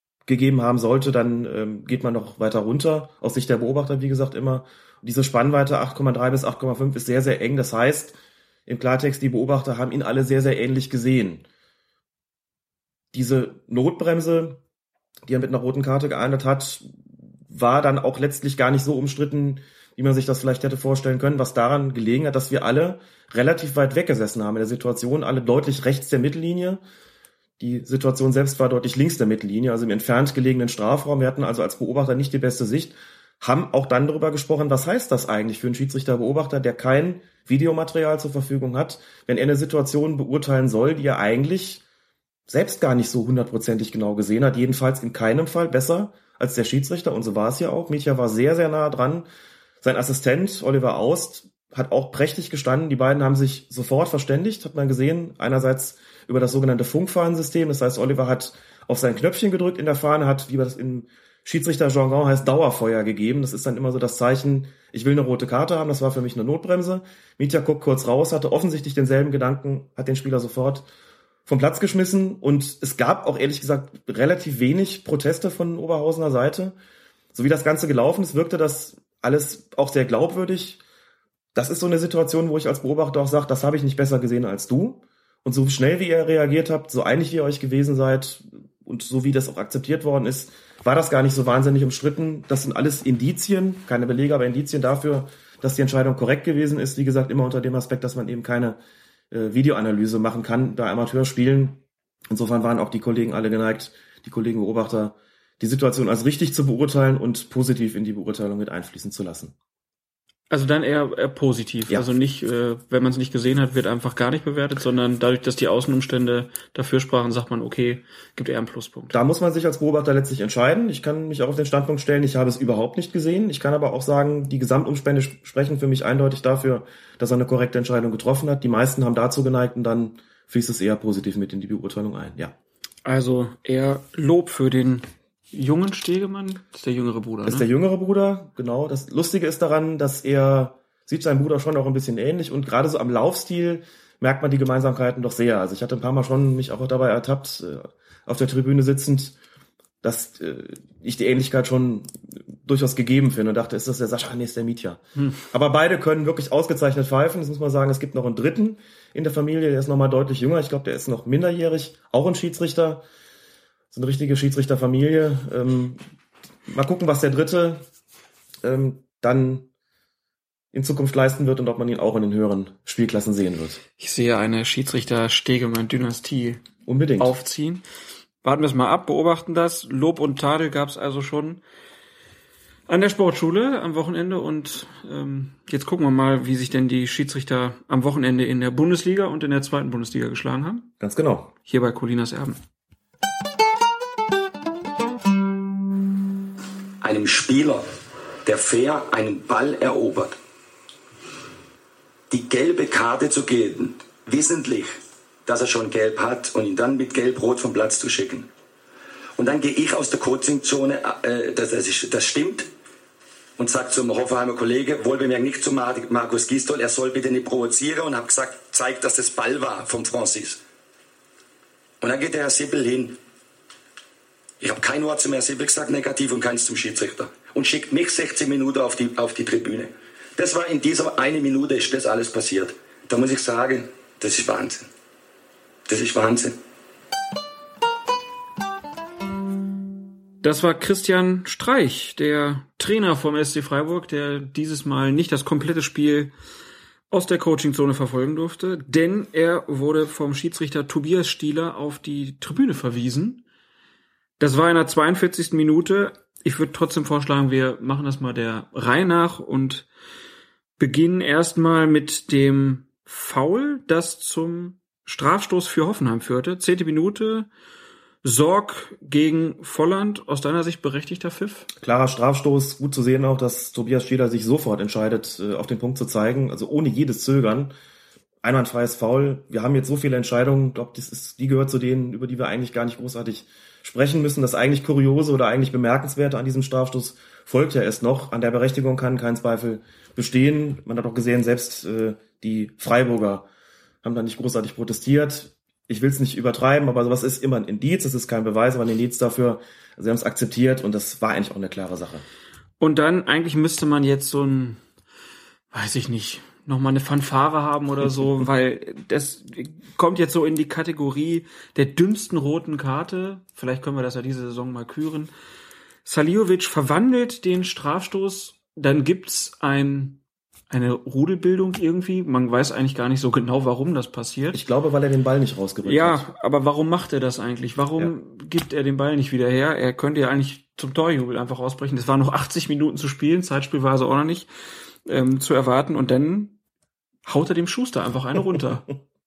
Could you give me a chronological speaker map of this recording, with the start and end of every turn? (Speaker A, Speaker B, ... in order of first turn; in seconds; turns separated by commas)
Speaker A: 0.3-11.4, Speaker A: 13.1-14.6, Speaker A: 15.3-16.9, Speaker A: 17.5-26.8, Speaker A: 27.6-41.8, Speaker A: 42.5-49.3, Speaker A: 49.8-70.9, Speaker A: 71.5-76.8, Speaker A: 77.3-80.8, Speaker A: 81.5-98.8, Speaker A: 99.3-109.5, Speaker B: 110.5-119.2, Speaker A: 119.1-132.5, Speaker B: 133.1-137.7, Speaker A: 137.4-149.3, Speaker A: 150.0-163.0, Speaker A: 163.9-166.0, Speaker A: 166.7-167.8, Speaker A: 168.6-169.7, Speaker A: 170.7-173.8, Speaker B: 174.0-176.6, Speaker A: 176.8-177.3, Speaker B: 177.2-177.8, Speaker B: 178.4-181.6, Speaker B: 182.9-190.9, Speaker A: 191.0-191.5, Speaker B: 191.7-192.6, Speaker C: 197.0-197.8, Speaker C: 198.4-200.4, Speaker C: 202.3-208.5, Speaker C: 209.4-212.7, Speaker C: 213.6-220.6, Speaker C: 222.0-223.2, Speaker C: 224.6-234.9, Speaker C: 235.9-236.6, Speaker B: 240.4-246.3, Speaker B: 247.1-253.4, Speaker B: 254.4-259.9, Speaker B: 260.8-267.5, Speaker B: 268.2-271.7, Speaker A: 271.8-277.7, Speaker A: 278.4-293.4, Speaker A: 294.0-302.2, Speaker B: 302.8-304.8, Speaker B: 305.7-315.3, Speaker B: 316.1-324.6, Speaker A: 324.5-326.3, Speaker B: 325.8-334.5, Speaker B: 335.1-336.6, Speaker B: 337.2-338.9